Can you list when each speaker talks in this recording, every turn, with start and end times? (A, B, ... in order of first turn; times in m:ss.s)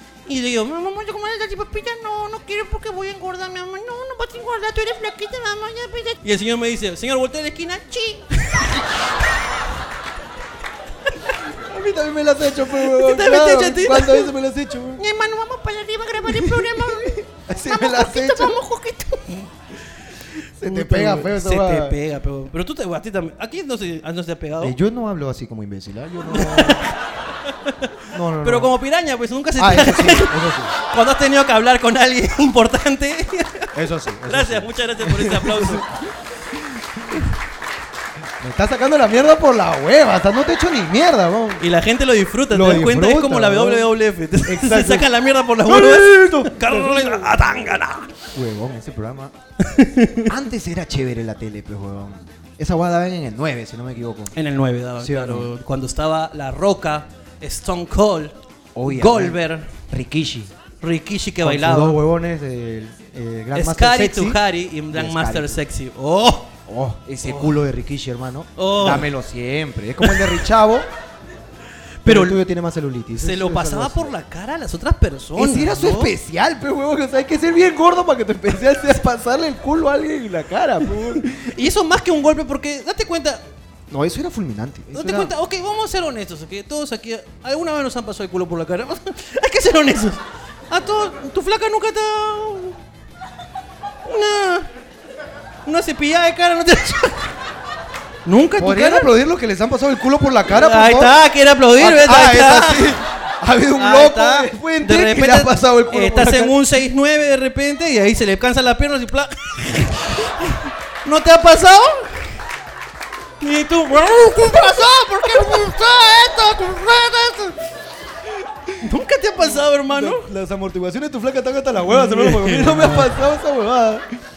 0:00.3-0:08.9 A
0:11.1-0:11.4 A
0:11.4-0:15.0 B
0:12.9-0:14.3 A
0:15.0-0:19.6 A
0:16.3-0:18.6 B
0:20.6-0:22.0 B
0:20.6-0:24.8 A
0:24.6-0:26.9 B
0:26.3-0:35.9 A
0:28.1-0:28.7 B
0:29.6-0:30.7 B
0:33.7-0:37.3 B
0:38.4-0:41.6 B
0:41.6-0:48.1 A
0:42.5-0:45.1 B
0:45.6-0:47.5 B
0:48.3-0:49.3 B
0:49.6-0:50.3 A
0:50.2-0:54.3 B
0:54.3-0:58.4 A
0:55.0-0:55.5 B
0:58.7-1:00.5 B
0:58.9-0:59.7 A
1:00.8-1:02.0 A
1:01.4-1:05.6 B
1:03.5-1:06.5 A
1:06.7-1:10.9 B
1:07.2-1:07.6 A
1:08.6-1:09.1 A
1:12.0-1:12.4 A
1:12.0-1:14.1 B
1:13.2-1:16.1 A
1:15.4-1:21.5 B
1:21.4-1:23.4 A
1:23.9-1:25.3 B
1:24.9-1:32.8 A
1:34.0-1:34.7 A
1:35.6-1:37.4 A
1:38.2-1:39.1 A
1:38.6-1:41.2 B
1:40.5-1:43.0 A
1:41.8-1:46.6 B
1:43.8-1:52.4 A
1:53.4-1:57.6 A
1:58.3-1:58.8 B
1:58.8-2:00.3 A
1:59.4-2:04.1 B
2:01.9-2:03.2 A